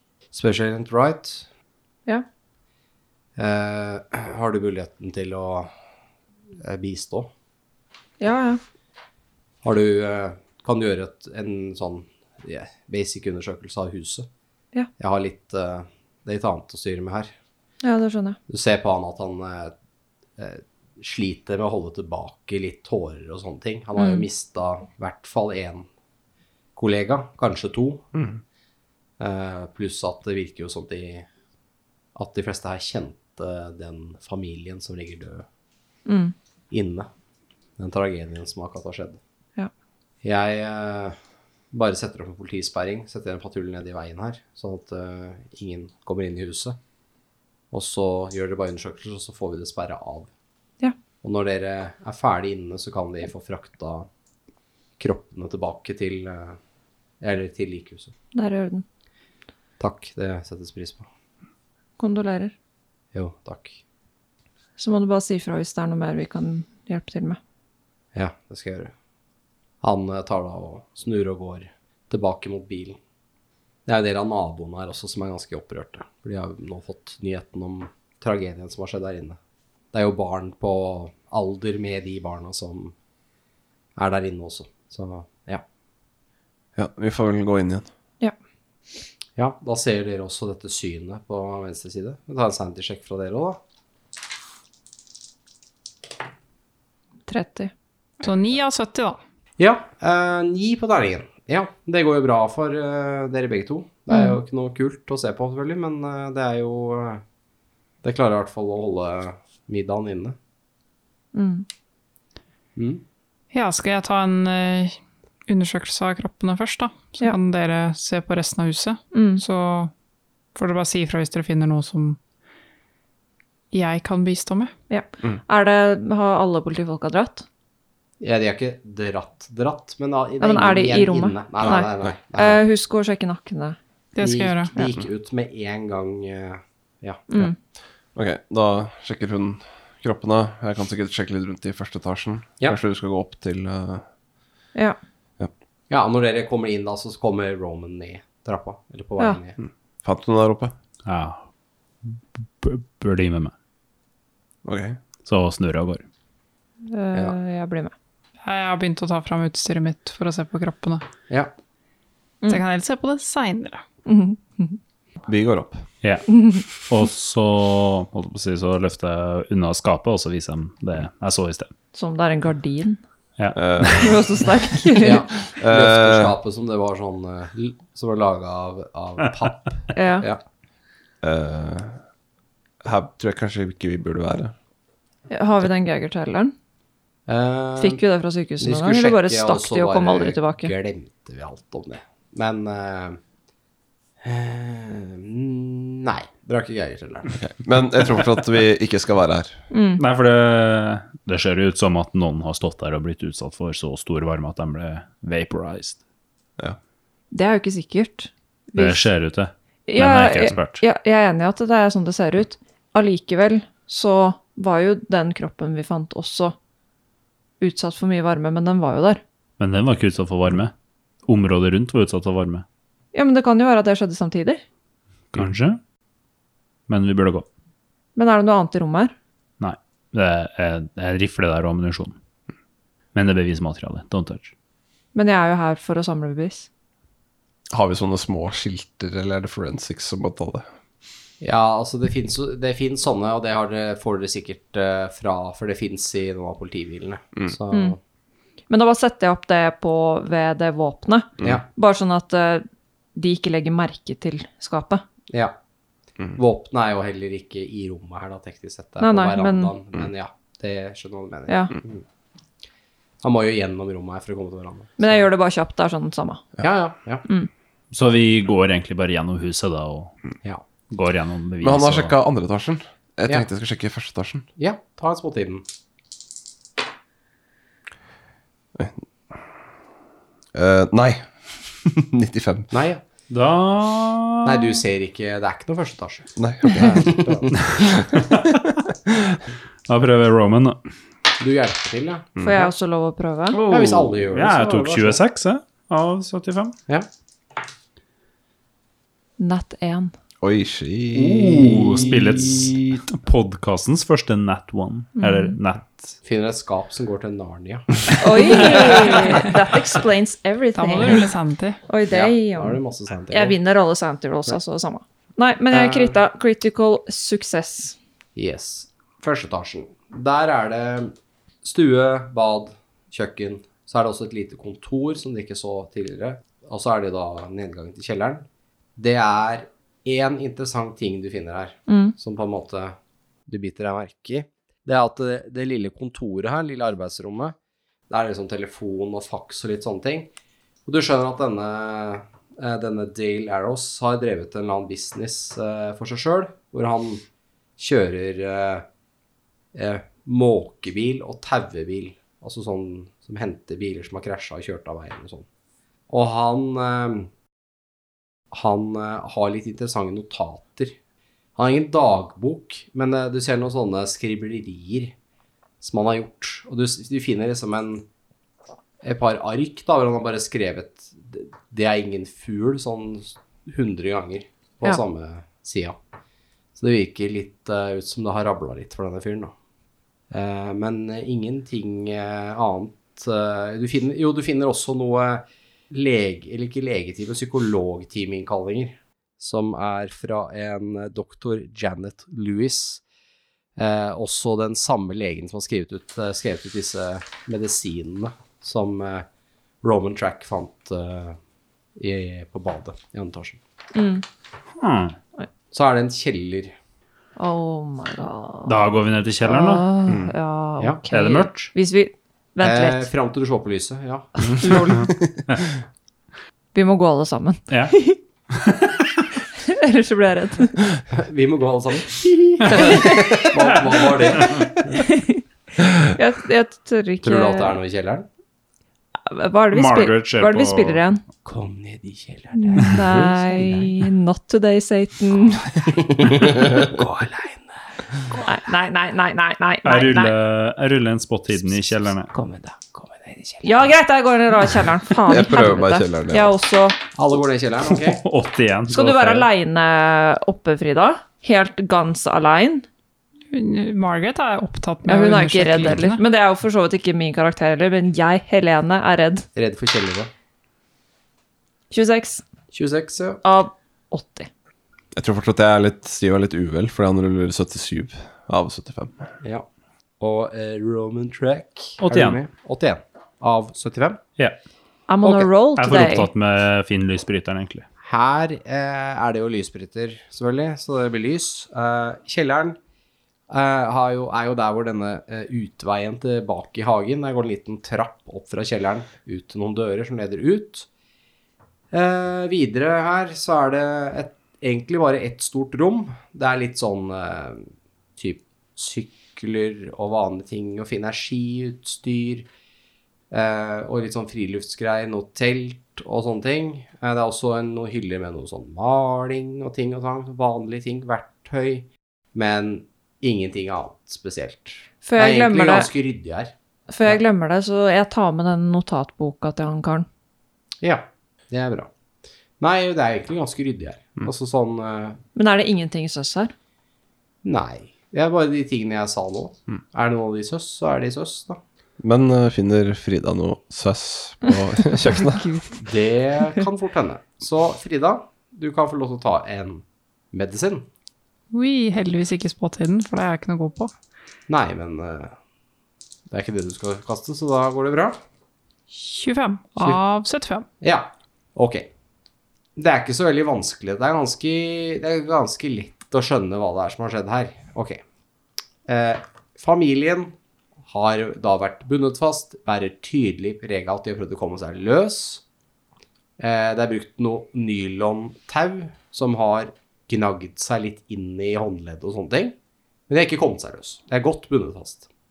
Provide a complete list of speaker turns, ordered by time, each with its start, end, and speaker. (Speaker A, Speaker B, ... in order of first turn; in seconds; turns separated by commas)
Speaker A: 0.3-1.5, Speaker A: 3.4-5.7, Speaker A: 6.6-7.3, Speaker B: 8.2-8.6, Speaker A: 9.6-14.3, Speaker A: 15.0-17.3, Speaker B: 17.8-18.4, Speaker A: 18.5-19.7, Speaker A: 20.4-25.9, Speaker B: 23.9-24.2, Speaker A: 26.8-28.1, Speaker C: 28.1-28.4, Speaker A: 29.2-31.3, Speaker A: 32.1-35.5, Speaker B: 36.0-36.3, Speaker A: 36.7-37.1, Speaker A: 37.8-39.2, Speaker A: 40.2-41.1, Speaker A: 41.7-46.8, Speaker A: 47.7-50.3, Speaker A: 51.2-54.1, Speaker A: 55.0-56.6, Speaker A: 57.2-58.1, Speaker B: 58.3-58.8, Speaker A: 59.8-61.1, Speaker B: 62.0-62.5, Speaker A: 63.1-63.8, Speaker B: 64.8-67.4, Speaker A: 68.1-68.9, Speaker A: 69.8-73.0, Speaker A: 73.9-79.4, Speaker A: 79.9-82.9, Speaker A: 84.0-85.6, Speaker C: 86.8-87.9, Speaker A: 89.4-93.6, Speaker B: 97.3-97.7, Speaker D: 98.2-99.2, Speaker A: 99.6-107.2, Speaker B: 104.1-104.3, Speaker A: 108.0-110.4, Speaker B: 111.3-111.7, Speaker A: 112.8-113.0, Speaker D: 113.5-119.9, Speaker B: 119.1-119.4, Speaker D: 120.5-122.2, Speaker D: 123.7-124.7, Speaker B: 124.9-127.5, Speaker A: 128.2-132.6, Speaker B: 130.4-133.8, Speaker D: 134.2-134.8, Speaker A: 134.2-137.3, Speaker B: 137.3-137.5, Speaker C: 138.1-144.0, Speaker A: 145.9-149.6, Speaker C: 149.6-150.7, Speaker E: 151.0-151.4, Speaker E: 152.0-153.5, Speaker C: 154.6-155.0, Speaker E: 155.2-156.0, Speaker B: 156.8-157.9, Speaker D: 158.4-161.0, Speaker D: 162.5-163.8, Speaker B: 164.1-164.8, Speaker C: 165.2-165.8, Speaker E: 166.0-171.7, Speaker B: 166.3-166.6, Speaker B: 171.9-173.0, Speaker E: 173.4-174.1, Speaker C: 173.5-174.5, Speaker B: 173.8-175.4, Speaker A: 175.0-180.4, Speaker C: 175.5-176.3, Speaker B: 179.9-180.3, Speaker C: 181.2-182.0, Speaker C: 182.8-184.5, Speaker B: 185.3-186.5, Speaker A: 187.3-188.0, Speaker B: 187.8-190.7, Speaker A: 188.6-193.2, Speaker A: 194.2-197.3, Speaker C: 197.3-199.6, Speaker B: 199.7-200.0, Speaker E: 200.0-206.0, Speaker B: 207.3-209.1, Speaker E: 208.8-210.8, Speaker B: 209.9-216.5, Speaker B: 217.6-219.2, Speaker E: 219.6-220.7, Speaker E: 221.2-222.6, Speaker B: 223.1-224.6, Speaker E: 225.3-225.8, Speaker E: 226.9-227.4, Speaker B: 228.2-229.1, Speaker E: 229.6-232.2, Speaker E: 233.1-234.5, Speaker B: 235.1-236.7, Speaker C: 237.7-240.7, Speaker A: 241.4-248.0, Speaker B: 247.7-247.9, Speaker B: 248.7-255.0, Speaker A: 256.4-262.0, Speaker B: 259.0-259.7, Speaker B: 261.5-261.7, Speaker A: 263.2-265.3, Speaker B: 265.0-266.5, Speaker A: 266.6-267.2, Speaker E: 267.9-270.1, Speaker E: 270.9-272.1, Speaker C: 271.6-274.5, Speaker A: 274.6-275.6, Speaker C: 278.7-279.0, Speaker C: 280.5-282.7, Speaker A: 282.7-283.0, Speaker E: 283.3-284.8, Speaker A: 284.4-287.6, Speaker C: 286.4-289.4, Speaker E: 288.3-288.6, Speaker E: 289.9-290.8, Speaker A: 291.4-292.3, Speaker C: 292.4-292.7, Speaker B: 292.4-293.6, Speaker E: 293.5-296.8, Speaker A: 293.7-295.2, Speaker B: 299.4-300.1, Speaker C: 300.4-302.8, Speaker E: 301.1-306.2, Speaker B: 305.2-305.6, Speaker A: 306.2-308.8, Speaker B: 308.2-311.3, Speaker D: 308.6-309.5, Speaker D: 310.7-311.8, Speaker B: 311.9-312.8, Speaker A: 312.1-313.6, Speaker B: 313.3-317.9, Speaker A: 315.7-316.2, Speaker A: 318.4-328.4, Speaker A: 329.0-332.9, Speaker B: 331.9-332.1, Speaker A: 333.5-337.5, Speaker A: 338.1-340.3, Speaker A: 340.9-347.2, Speaker A: 347.8-348.9, Speaker A: 349.7-355.4, Speaker A: 356.1-357.3, Speaker A: 358.5-360.9, Speaker A: 361.6-365.1, Speaker A: 365.8-368.0, Speaker A: 369.0-376.0, Speaker A: 376.8-379.5, Speaker A: 380.3-393.0, Speaker A: 393.8-399.2, Speaker A: 399.8-401.4, Speaker A: 402.0-403.6, Speaker B: 403.9-404.2, Speaker E: 404.8-405.1, Speaker A: 405.7-406.7, Speaker B: 407.4-408.9, Speaker E: 408.6-409.8, Speaker B: 409.4-413.1, Speaker C: 410.1-410.3, Speaker E: 411.1-411.7, Speaker A: 412.6-414.8, Speaker B: 414.4-415.1, Speaker B: 416.7-418.2, Speaker E: 417.7-417.9, Speaker E: 418.5-418.8, Speaker B: 419.6-421.0, Speaker A: 421.1-424.8, Speaker B: 422.7-423.5, Speaker B: 424.9-427.8, Speaker A: 427.2-428.3, Speaker B: 429.2-431.2, Speaker E: 429.7-431.0, Speaker A: 431.4-433.9, Speaker B: 432.5-435.9, Speaker A: 435.9-438.5, Speaker B: 438.4-440.3, Speaker E: 439.8-442.3, Speaker A: 442.3-443.9, Speaker B: 443.6-447.0, Speaker C: 445.3-446.5, Speaker A: 447.1-448.2, Speaker E: 447.9-449.5, Speaker B: 448.9-452.9, Speaker D: 453.5-456.2, Speaker B: 455.1-459.5, Speaker A: 459.5-460.3, Speaker B: 461.9-462.4, Speaker A: 462.7-463.4, Speaker B: 463.4-464.5, Speaker C: 465.1-469.3, Speaker A: 470.2-474.2, Speaker E: 472.0-472.4, Speaker B: 475.1-476.3, Speaker E: 475.8-477.8, Speaker A: 478.0-482.8, Speaker A: 483.5-490.9, Speaker A: 491.9-502.5, Speaker A: 503.3-516.5, Speaker B: 515.0-515.9, Speaker B: 516.9-520.1, Speaker A: 520.8-521.9, Speaker A: 522.6-525.2, Speaker B: 525.3-526.5, Speaker A: 527.4-531.6, Speaker C: 532.0-535.5, Speaker B: 535.4-535.7, Speaker A: 535.8-540.9, Speaker D: 541.5-543.9, Speaker A: 544.5-545.3, Speaker A: 546.3-548.2, Speaker D: 548.9-550.7, Speaker A: 550.8-551.9, Speaker A: 552.8-558.0, Speaker A: 558.9-560.3, Speaker A: 560.9-565.4, Speaker A: 566.4-572.5, Speaker A: 573.1-575.1